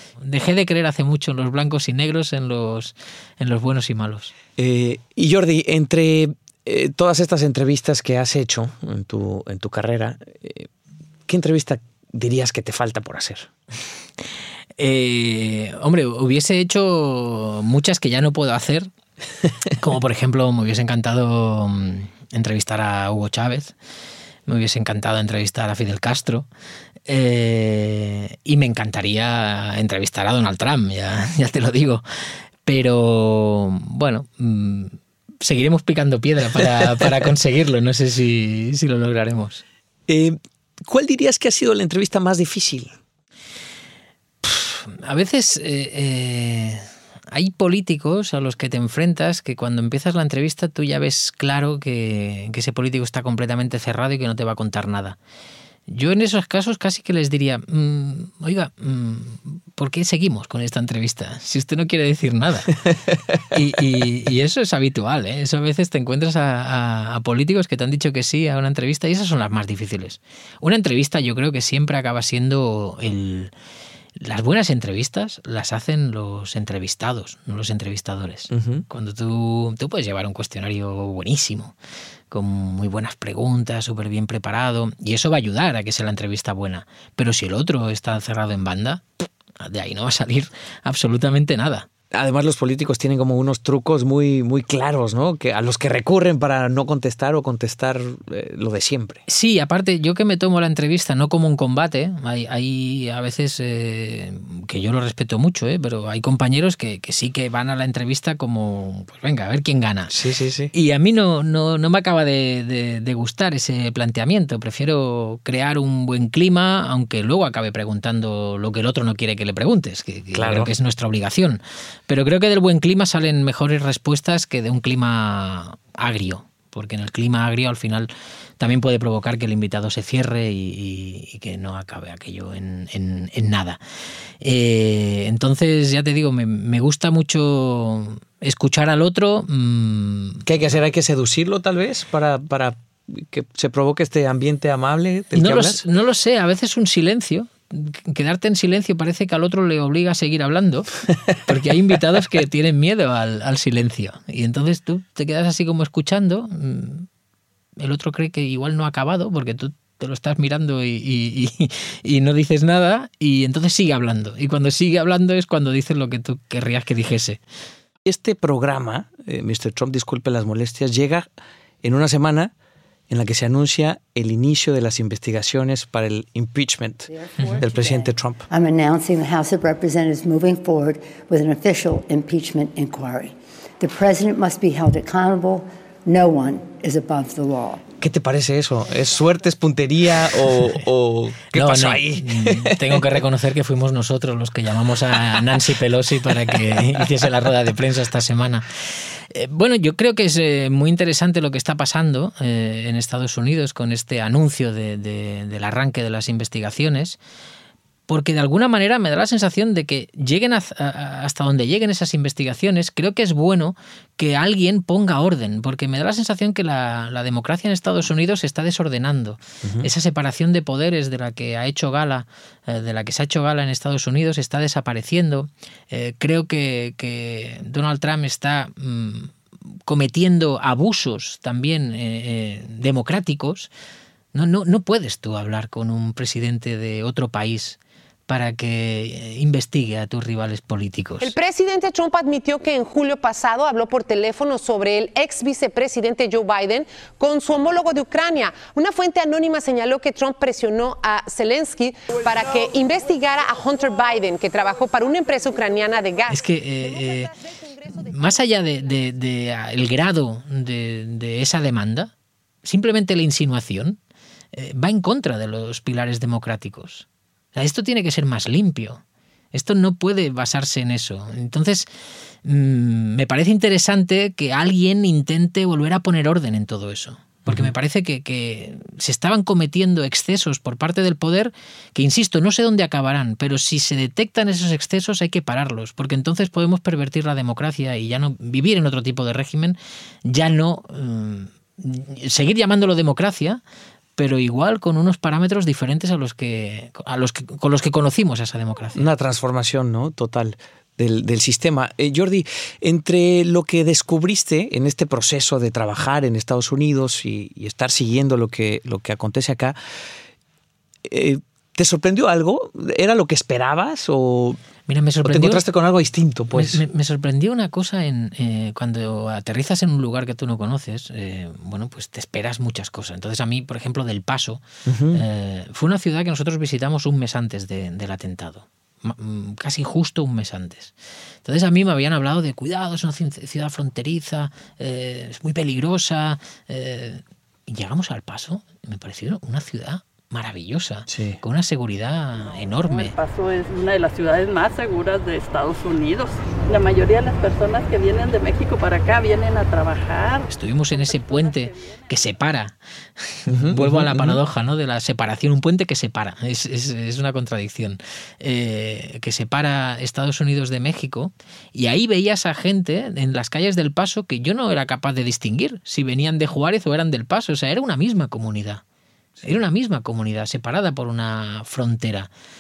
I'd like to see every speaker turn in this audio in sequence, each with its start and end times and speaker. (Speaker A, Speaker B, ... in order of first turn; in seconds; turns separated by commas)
Speaker A: 0.2-4.3, Speaker B: 4.6-10.7, Speaker B: 11.3-13.5, Speaker A: 14.8-18.9, Speaker A: 19.8-23.8, Speaker A: 24.5-26.5, Speaker A: 27.1-32.0, Speaker A: 32.6-39.6, Speaker B: 40.1-43.0, Speaker A: 44.4-55.2, Speaker A: 55.9-62.7, Speaker A: 63.5-73.5, Speaker A: 74.2-81.8, Speaker B: 78.5-78.9, Speaker A: 82.3-89.1, Speaker A: 89.6-91.9, Speaker B: 92.1-99.2, Speaker A: 99.3-110.1, Speaker B: 110.1-110.7, Speaker A: 110.7-133.8, Speaker B: 120.3-120.7, Speaker A: 134.4-140.4, Speaker B: 140.4-145.8, Speaker A: 145.3-150.9, Speaker A: 151.4-157.1, Speaker A: 157.8-167.4, Speaker B: 168.1-171.3, Speaker B: 171.8-172.5, Speaker B: 173.1-178.4, Speaker C: 177.1-187.8, Speaker B: 188.0-193.2, Speaker A: 191.5-198.7, Speaker B: 195.3-195.6, Speaker B: 196.4-197.1, Speaker A: 199.3-207.2, Speaker A: 208.1-229.3, Speaker B: 219.6-219.9, Speaker A: 229.9-233.7, Speaker A: 234.3-241.3, Speaker D: 241.2-256.4, Speaker A: 256.3-257.3, Speaker A: 257.9-262.1, Speaker A: 262.6-264.0, Speaker A: 264.5-269.0, Speaker A: 269.5-271.9, Speaker A: 272.4-293.6, Speaker B: 277.4-277.7, Speaker A: 294.2-299.0, Speaker B: 299.0-309.8, Speaker B: 311.1-314.6, Speaker A: 314.9-315.6, Speaker B: 315.2-316.8, Speaker A: 316.5-343.1, Speaker B: 324.9-325.2, Speaker B: 341.1-341.4, Speaker E: 342.9-352.0, Speaker A: 350.5-368.8, Speaker B: 353.5-354.4, Speaker A: 369.4-372.3